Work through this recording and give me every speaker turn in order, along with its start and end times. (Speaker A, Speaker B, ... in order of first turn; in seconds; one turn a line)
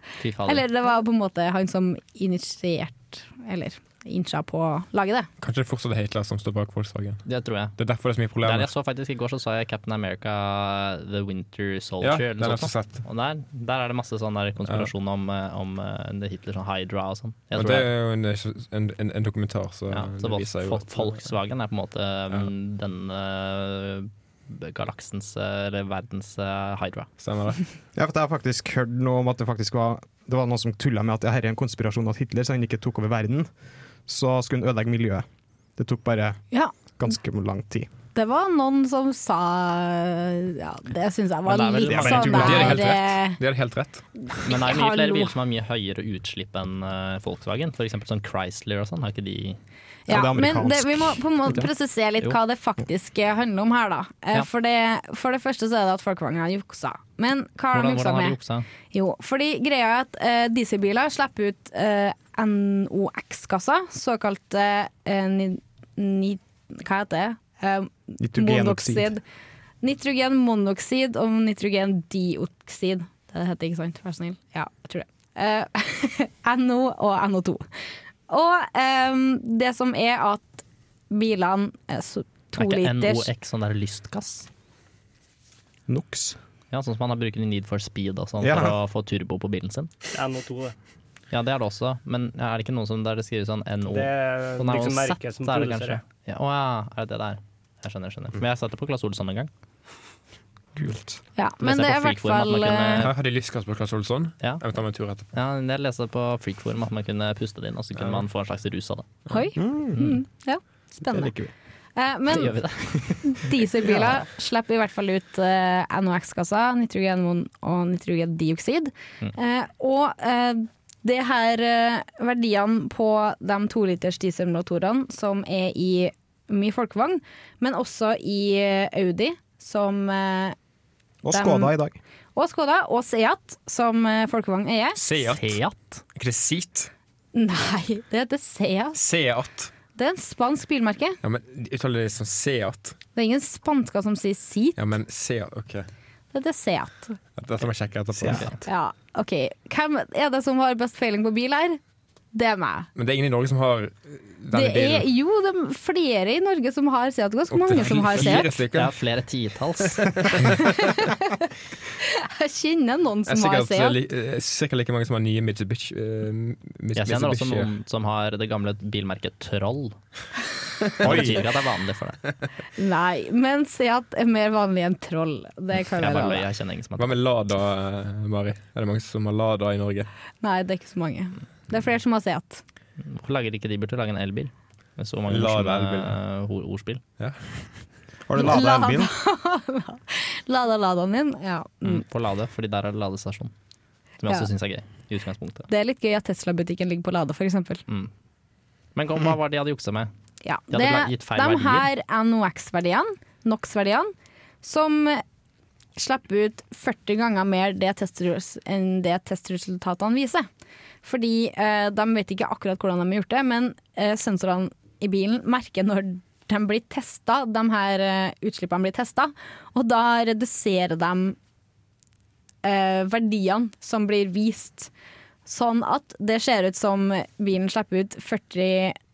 Speaker A: 0.2-0.6
Speaker B: 0.4-5.3
Speaker C: 5.4-7.2
Speaker A: 7.3-7.8
Speaker C: 7.8-8.7
Speaker A: 8.4-17.9
Speaker C: 12.0-13.0
Speaker C: 17.6-21.3
Speaker A: 19.9-27.1
Speaker C: 27.2-27.6
Speaker D: 27.9-33.5
Speaker D: 34.1-35.2
Speaker D: 35.8-36.4
Speaker D: 37.0-37.9
Speaker B: 38.1-43.4
Speaker A: 41.5-42.8
Speaker D: 41.9-42.8
Speaker C: 42.1-44.0
Speaker B: 44.3-45.4
Speaker A: 44.4-49.6
Speaker B: 50.1-58.4
Speaker D: 50.1-51.7
Speaker A: 57.7-58.7
Speaker B: 58.9-69.2
Speaker D: 68.2-69.1
Speaker B: 69.8-77.6
Speaker B: 78.3-83.3
Speaker A: 82.6-84.5
Speaker D: 85.9-86.4
Speaker A: 86.7-89.9
Speaker D: 88.4-88.8
Speaker E: 90.1-90.8
Speaker A: 91.3-99.5
Speaker E: 93.9-96.0
Speaker D: 100.8-101.2
Speaker B: 101.4-103.1
Speaker A: 101.6-103.1
Speaker C: 103.0-105.3
Speaker A: 105.3-109.1
Speaker B: 109.3-111.3
Speaker D: 109.6-110.0
Speaker D: 111.1-111.5
Speaker B: 112.0-112.6
Speaker A: 112.3-112.8
Speaker B: 113.2-130.6
Speaker D: 131.2-132.0
Speaker B: 131.3-131.7
Speaker B: 132.3-135.0
Speaker C: 135.0-135.6
Speaker A: 135.3-136.0
Speaker C: 136.2-136.9
Speaker B: 137.3-139.0
Speaker C: 138.9-139.7
Speaker B: 139.9-141.2
Speaker C: 141.2-143.0
Speaker B: 143.1-144.8
Speaker C: 144.8-145.9
Speaker B: 146.3-147.2
Speaker C: 147.4-148.5
Speaker A: 148.3-148.6
Speaker B: 148.6-151.8
Speaker B: 152.3-152.9
Speaker C: 153.0-155.1
Speaker B: 154.5-158.6
Speaker C: 157.5-159.0
Speaker A: 158.2-160.3
Speaker C: 159.9-161.1
Speaker B: 160.5-161.3
Speaker B: 162.0-164.0
Speaker C: 163.3-167.7
Speaker A: 166.9-170.0
Speaker A: 171.0-172.2
Speaker C: 171.0-171.4
Speaker B: 172.8-176.5
Speaker A: 176.0-177.1
Speaker C: 177.0-180.1
Speaker B: 180.4-182.6
Speaker A: 183.0-187.0
Speaker C: 185.3-186.2
Speaker C: 187.2-187.5
Speaker D: 188.3-189.1
Speaker B: 188.3-192.0
Speaker A: 191.8-193.5
Speaker A: 194.2-195.7
Speaker B: 195.7-197.8
Speaker A: 198.9-200.1
Speaker B: 200.4-205.2
Speaker A: 200.7-201.9
Speaker B: 206.0-210.5
Speaker B: 211.0-221.4
Speaker B: 222.6-224.9
Speaker B: 225.5-229.0